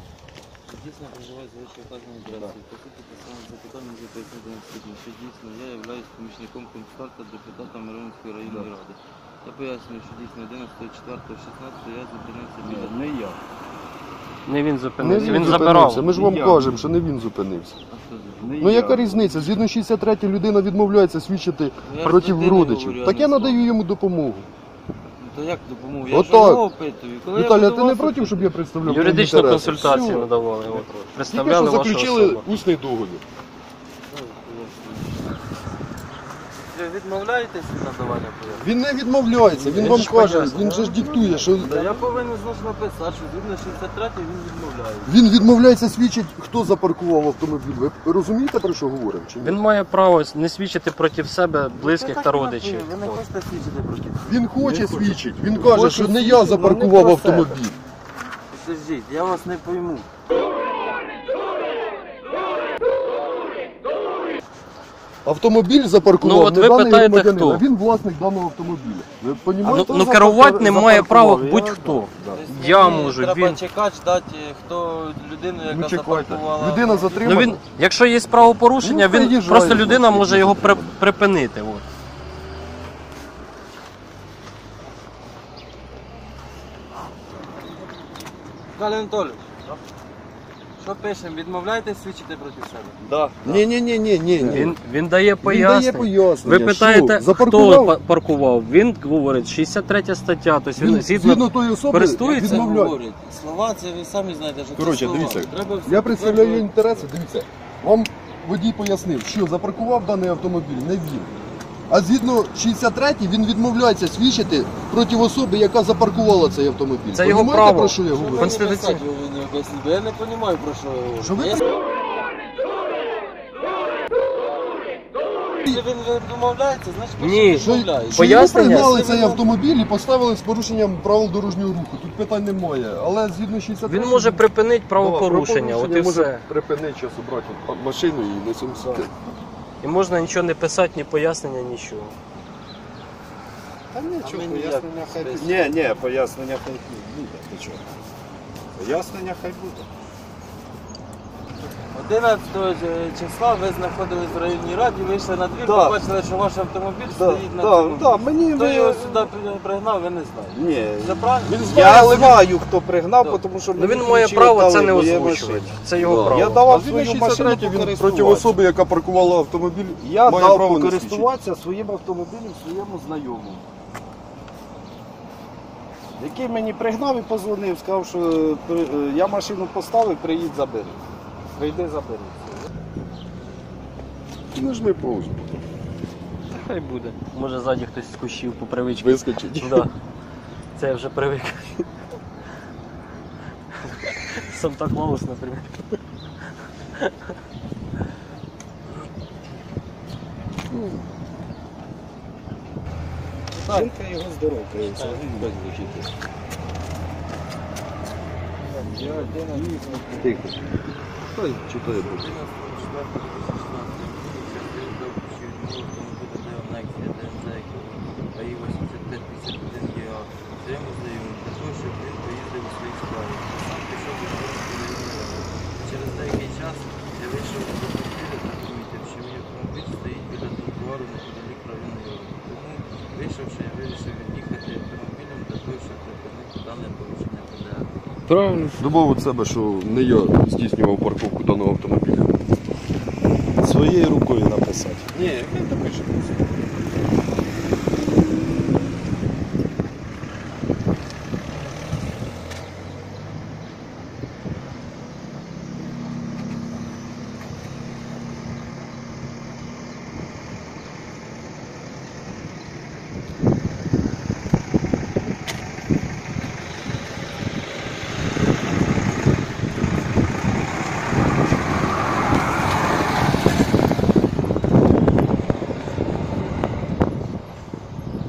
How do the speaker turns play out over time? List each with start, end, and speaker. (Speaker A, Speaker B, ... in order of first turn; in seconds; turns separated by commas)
Speaker A: 0.7-13.2, Speaker B: 12.6-13.4, Speaker C: 14.5-16.1, Speaker D: 15.0-17.8, Speaker B: 15.1-16.8, Speaker A: 17.9-18.6, Speaker B: 18.4-19.4, Speaker D: 18.6-24.5, Speaker A: 21.8-23.7, Speaker A: 25.2-28.6, Speaker D: 26.1-26.6, Speaker D: 27.3-30.3, Speaker C: 28.8-32.5, Speaker D: 31.2-33.2, Speaker A: 34.1-35.2, Speaker A: 36.6-38.7, Speaker D: 38.6-41.8, Speaker B: 39.6-42.1, Speaker A: 39.7-40.7, Speaker C: 39.8-40.8, Speaker A: 41.4-45.1, Speaker D: 45.0-49.6, Speaker C: 49.4-53.2, Speaker A: 51.7-55.2, Speaker D: 54.2-57.8, Speaker B: 55.5-57.6, Speaker A: 58.5-60.1, Speaker D: 65.2-70.3, Speaker C: 66.2-67.6, Speaker B: 69.6-72.4, Speaker C: 69.7-73.6, Speaker A: 72.3-77.5, Speaker D: 75.7-77.6, Speaker C: 77.2-81.8, Speaker D: 78.8-81.0, Speaker A: 88.8-89.8, Speaker A: 90.8-93.6, Speaker B: 93.1-93.4, Speaker D: 93.4-94.8, Speaker C: 94.4-102.7, Speaker D: 95.4-98.0, Speaker D: 100.8-103.0, Speaker A: 102.2-107.1, Speaker D: 104.8-111.3, Speaker D: 111.9-118.6, Speaker C: 117.1-119.0, Speaker A: 118.1-121.7, Speaker D: 121.2-121.6, Speaker A: 125.6-129.5, Speaker C: 127.2-129.1, Speaker D: 127.6-139.1, Speaker C: 133.8-136.5, Speaker C: 139.8-142.2, Speaker B: 143.9-147.9, Speaker A: 144.2-145.8, Speaker B: 148.8-149.9, Speaker A: 151.9-162.4, Speaker B: 155.6-156.0, Speaker B: 157.1-159.3, Speaker B: 160.5-168.6, Speaker D: 161.4-162.4, Speaker C: 163.8-166.6, Speaker D: 166.0-171.3, Speaker B: 170.0-173.7, Speaker B: 176.2-181.0, Speaker B: 181.5-182.7, Speaker D: 184.5-185.6, Speaker C: 186.5-189.9, Speaker D: 188.9-189.9, Speaker C: 190.8-191.8, Speaker C: 193.9-195.7, Speaker B: 203.6-205.8, Speaker D: 205.3-206.1, Speaker A: 208.7-210.0, Speaker B: 208.8-209.7, Speaker D: 210.2-210.6, Speaker D: 211.2-212.3, Speaker A: 211.9-237.9, Speaker B: 238.3-238.8, Speaker D: 238.8-242.4, Speaker B: 243.6-245.1, Speaker D: 245.1-246.3, Speaker A: 276.1-276.7